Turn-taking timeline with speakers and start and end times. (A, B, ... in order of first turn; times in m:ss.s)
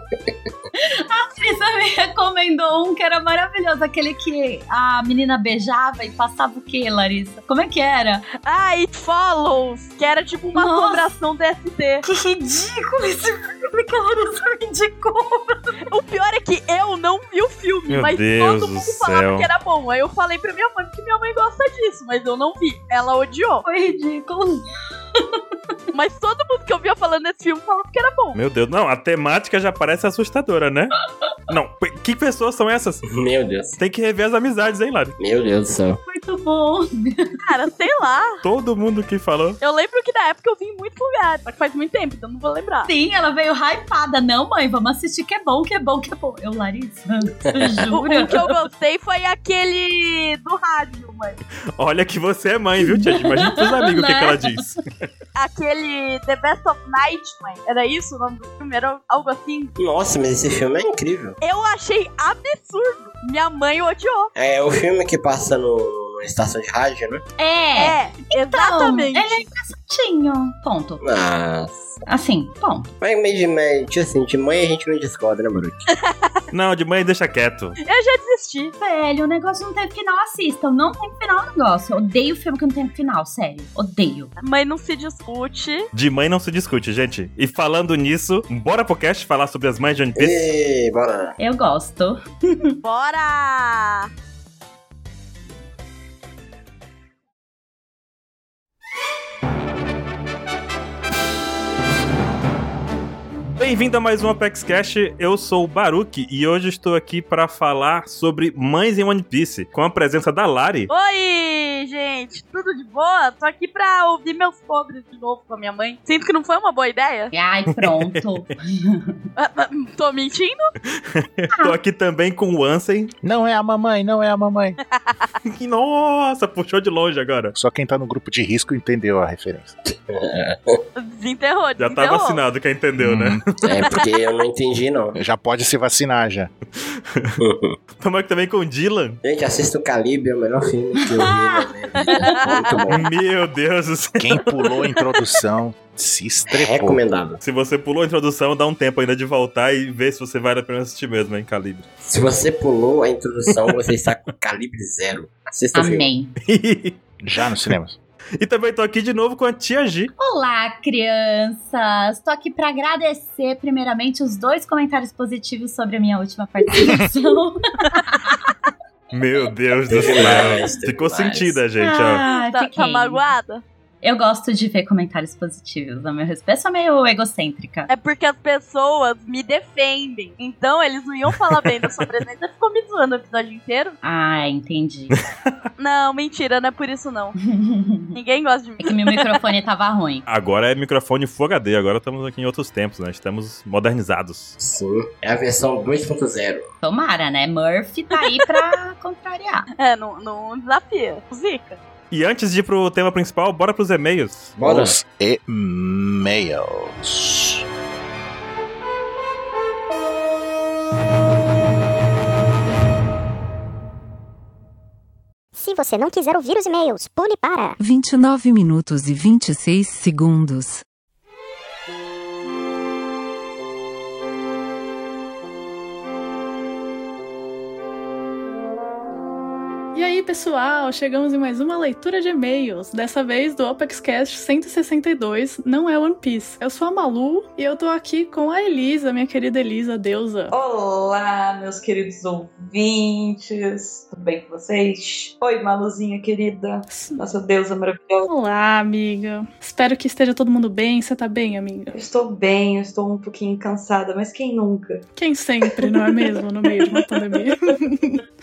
0:00.8-0:08.2 A
0:08.3-0:12.0 B
0:10.5-0:11.1 A
0:12.0-0:15.8 A
0:15.8-0:23.6 B
0:17.9-0:19.5 C
0:23.6-0:25.4 A
0:25.9-0:28.4 B
0:28.3-0:30.9 C
0:31.5-0:33.0 C
0:33.1-0:33.8 D
0:33.8-0:35.2 C
0:35.2-0:36.0 D
0:36.1-0:37.4 A
0:37.4-0:38.4 B
0:38.4-0:39.6 C
0:39.6-0:42.9 B
0:42.8-0:48.6 A
0:47.4-0:47.7 D
0:47.9-0:51.4 B
0:51.8-0:54.8 C
0:52.8-0:54.6 A
0:55.4-0:59.7 B
0:59.8-1:01.4 D
1:01.4-1:04.3 B
1:04.3-1:07.2 D
1:07.4-1:11.0 A
1:07.7-1:09.5 B
1:11.0-1:11.9 D
1:12.0-1:12.9 A
1:13.0-1:15.9 D
1:15.9-1:16.4 B
1:16.5-1:17.8 C
1:17.8-1:18.7 B
1:18.8-1:24.3 A
1:24.4-1:25.9 B
1:25.9-1:30.4 C
1:30.2-1:31.4 D
1:31.4-1:32.8 A
1:32.8-1:34.1 B
1:43.6-1:50.9 C
1:50.9-1:57.3 B
1:57.3-1:59.2 A
1:57.7-1:58.3 C
1:59.4-2:00.7 B
2:00.9-2:03.1 C
2:03.2-2:04.8 E
2:05.0-2:05.2 B
2:05.4-2:07.5 C
2:07.5-2:09.7 E
2:10.1-2:10.8 D
2:11.0-2:12.4 B
2:11.8-2:13.9 C
2:13.0-2:13.4 E
2:13.6-2:15.2 D
2:15.1-2:16.5 E
2:16.8-2:17.3 C
2:17.4-2:17.8 D
2:18.0-2:19.2 C
2:19.2-2:23.0 D
2:21.1-2:21.7 A
2:22.0-2:22.8 B
2:22.9-2:24.4 C
2:24.2-2:27.0 E
2:26.5-2:27.4 D
2:27.4-2:31.8 C
2:32.0-2:36.1 D
2:35.7-2:36.3 A
2:36.4-2:37.0 C
2:37.2-2:38.0 E
2:38.4-2:40.1 C
2:40.2-2:48.5 A
2:49.1-2:52.2 C
2:49.9-2:51.6 D
2:51.8-2:53.2 A
2:52.2-2:53.6 B
2:54.0-2:57.9 A
2:57.9-3:04.0 B
3:04.0-3:05.2 A
3:05.8-3:07.3 B
3:07.4-3:08.2 A
3:08.1-3:09.3 B
3:08.8-3:10.2 A
3:10.2-3:14.6 C
3:14.6-3:16.7 D
3:16.8-3:19.7 A
3:19.8-3:21.8 B
3:22.1-3:24.5 C
3:24.6-3:24.9 D
3:24.6-3:27.6 E
3:35.5-3:37.8 F
3:37.8-3:40.8 G
3:49.9-4:00.5 H
4:00.5-4:08.3 I
4:06.9-4:07.2 H
4:08.2-4:12.0 H
4:11.9-4:15.0 I
4:15.2-4:18.2 H
4:15.7-4:17.5 I